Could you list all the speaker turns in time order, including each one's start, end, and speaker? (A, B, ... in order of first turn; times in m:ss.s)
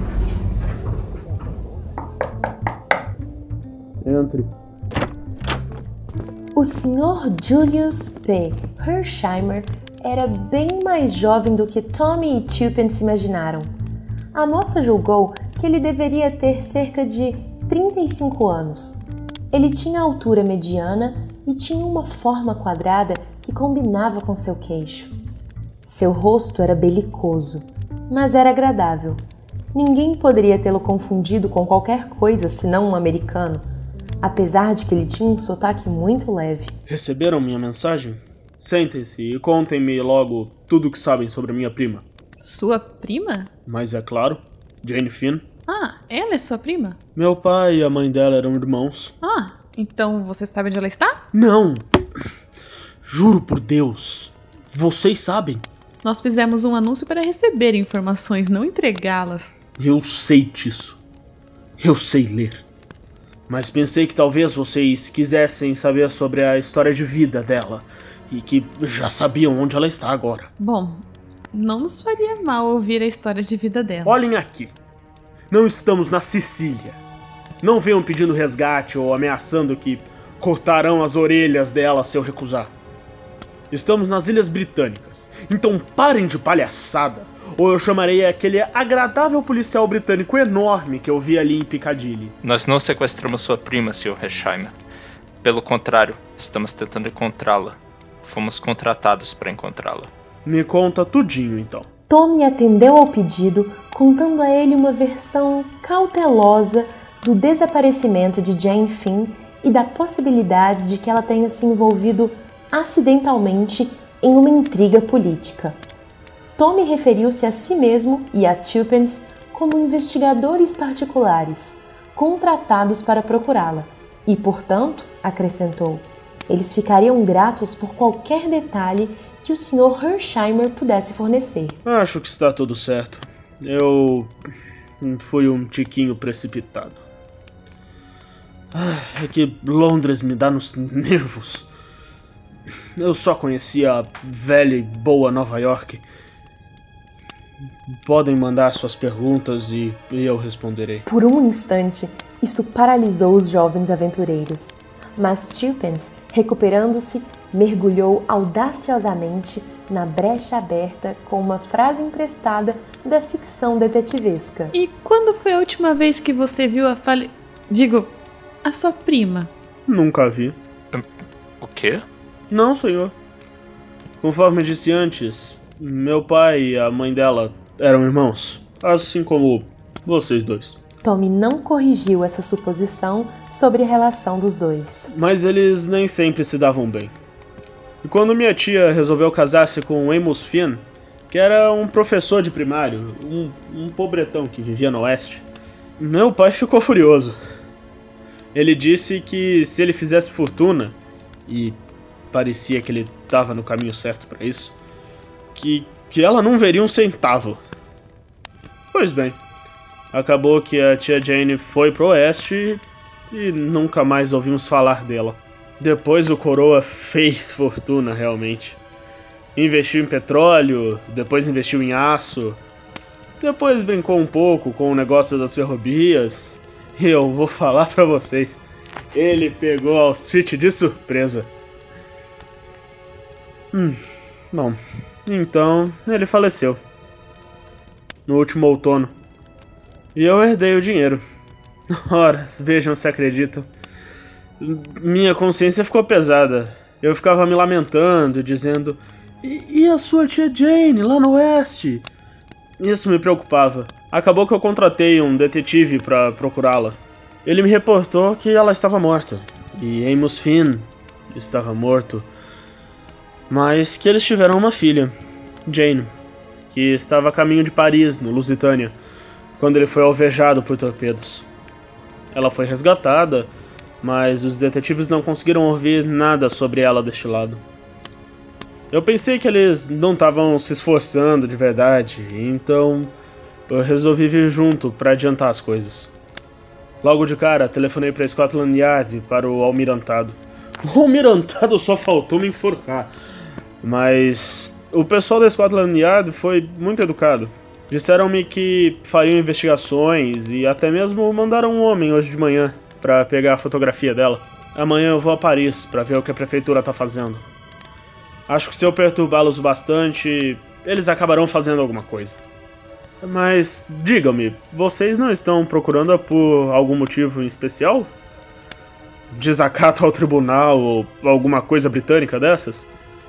0:04.0-0:04.5 A
0:06.5-0:13.7 B
0:14.3-0:19.0 B
0:19.5-0:25.1 B
0:25.8-0:29.2 B
0:29.7-0:33.6 B
0:34.2-0:36.7 B
0:36.9-0:42.0 A
0:42.4-0:43.5 C
0:43.6-0:45.4 A
0:45.7-0:47.0 C
0:47.2-0:49.1 A
0:49.2-0:51.2 C
0:51.3-0:51.9 A
0:53.0-0:55.6 A
0:56.0-0:59.5 C
0:59.8-1:01.0 A
1:01.8-1:02.6 A
1:03.5-1:10.5 A
1:10.6-1:14.2 C
1:14.0-1:14.7 A
1:15.5-1:17.0 A
1:17.6-1:22.7 A
1:23.7-1:32.3 A
1:32.4-1:34.7 D
1:35.4-1:40.1 D
1:40.4-1:41.9 A
1:42.1-1:55.8 B
1:56.6-2:11.8 B
2:11.8-2:14.3 A
2:15.0-2:17.0 A
2:18.7-2:21.7 A
2:23.0-2:26.0 A
2:27.9-2:31.0 A
2:31.0-2:44.8 B
2:44.7-2:49.5 C
2:49.9-2:50.6 A
2:51.6-2:52.0 D
2:52.5-2:53.1 A
2:54.2-3:00.8 A
3:01.0-3:05.1 B
3:05.1-3:07.1 A
3:08.0-3:15.4 A
3:16.0-3:17.4 A
3:18.5-3:21.8 A
3:22.3-3:24.7 A
3:25.5-3:27.6 A
3:28.9-3:29.4 A
3:30.1-3:38.8 A
3:39.6-3:42.6 A
3:43.4-3:51.5 A
3:53.7-3:54.0 A
3:54.5-3:56.8 A
3:58.3-3:59.1 A
4:00.1-4:01.2 A
4:01.9-4:03.7 A
4:04.6-4:12.0 A
4:12.8-4:22.3 A
4:23.5-4:25.1 A
4:25.7-4:26.1 A
4:26.7-4:29.0 A
4:29.6-4:31.5 A
4:32.3-4:33.5 A
4:34.0-4:37.6 A
4:38.9-4:43.1 A
4:43.7-4:46.1 A
4:47.0-4:53.1 A
4:53.8-5:07.4 A
5:08.5-5:12.4 A
5:13.2-5:18.1 A
5:19.3-5:22.9 A